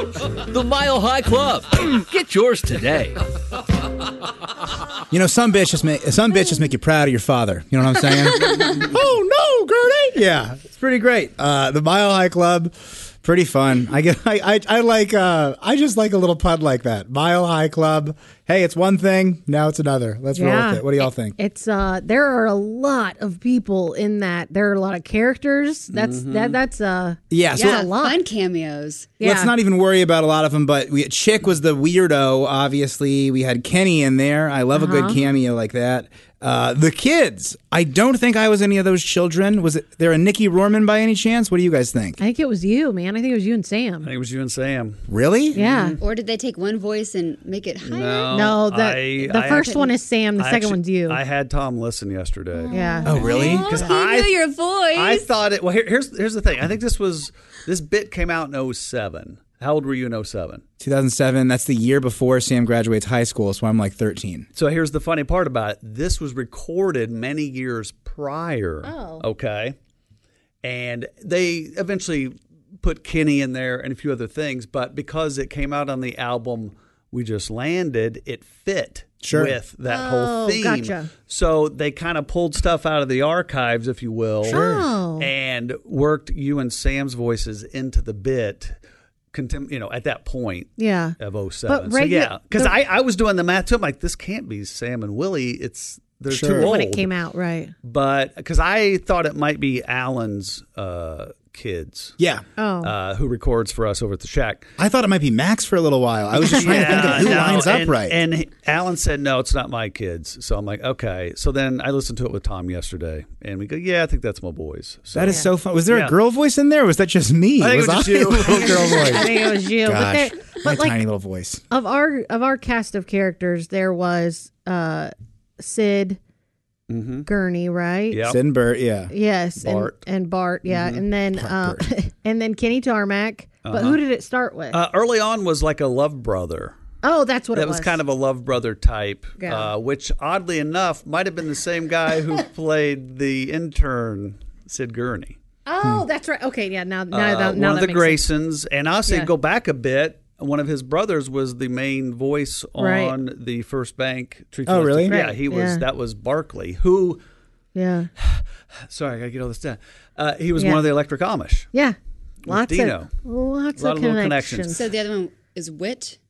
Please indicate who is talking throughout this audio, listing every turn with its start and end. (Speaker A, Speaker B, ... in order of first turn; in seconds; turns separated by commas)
Speaker A: 0.3-3.2, Speaker B: 5.1-21.4, Speaker C: 20.3-28.2, Speaker D: 25.9-26.6, Speaker B: 27.3-27.9, Speaker E: 27.5-29.1, Speaker C: 29.2-29.5, Speaker B: 29.2-42.2, Speaker C: 34.7-35.2, Speaker C: 42.2-44.1, Speaker D: 44.0-45.0, Speaker B: 45.1-45.6, Speaker C: 45.5-46.0, Speaker E: 46.0-48.5, Speaker D: 47.8-60.6, Speaker C: 48.3-51.2, Speaker E: 49.4-49.8, Speaker E: 52.6-55.3, Speaker C: 52.7-53.5, Speaker B: 53.0-53.7, Speaker B: 60.8-64.5, Speaker D: 64.5-69.7, Speaker C: 68.8-69.2, Speaker D: 70.6-84.6, Speaker B: 79.2-79.5, Speaker C: 79.9-81.1, Speaker B: 84.5-84.8, Speaker C: 84.5-85.3, Speaker D: 85.2-88.8, Speaker D: 89.3-97.1, Speaker C: 90.8-92.8, Speaker B: 96.3-96.7, Speaker C: 96.5-97.7, Speaker D: 97.8-102.1, Speaker B: 102.2-102.4, Speaker C: 102.6-102.9, Speaker D: 102.8-104.7, Speaker B: 104.8-108.2, Speaker C: 106.4-107.5, Speaker D: 106.5-116.1, Speaker B: 115.1-121.6, Speaker D: 117.6-119.2, Speaker C: 118.6-121.0, Speaker C: 121.7-126.2, Speaker D: 126.9-127.3, Speaker C: 127.2-128.2, Speaker D: 128.1-128.4, Speaker B: 128.3-129.1, Speaker C: 129.1-134.8, Speaker D: 129.6-130.0, Speaker D: 130.7-131.0, Speaker B: 131.4-131.8, Speaker D: 133.6-134.0, Speaker D: 134.7-136.8, Speaker C: 137.0-138.0, Speaker D: 137.5-145.4, Speaker C: 139.4-139.7, Speaker C: 145.7-148.2, Speaker D: 147.1-157.2, Speaker C: 152.8-153.2, Speaker B: 154.7-155.2, Speaker C: 155.1-155.8, Speaker C: 157.7-158.1, Speaker D: 158.2-161.7, Speaker C: 160.6-160.8, Speaker C: 161.7-164.8, Speaker D: 162.4-163.1, Speaker D: 163.8-164.8, Speaker E: 164.7-166.2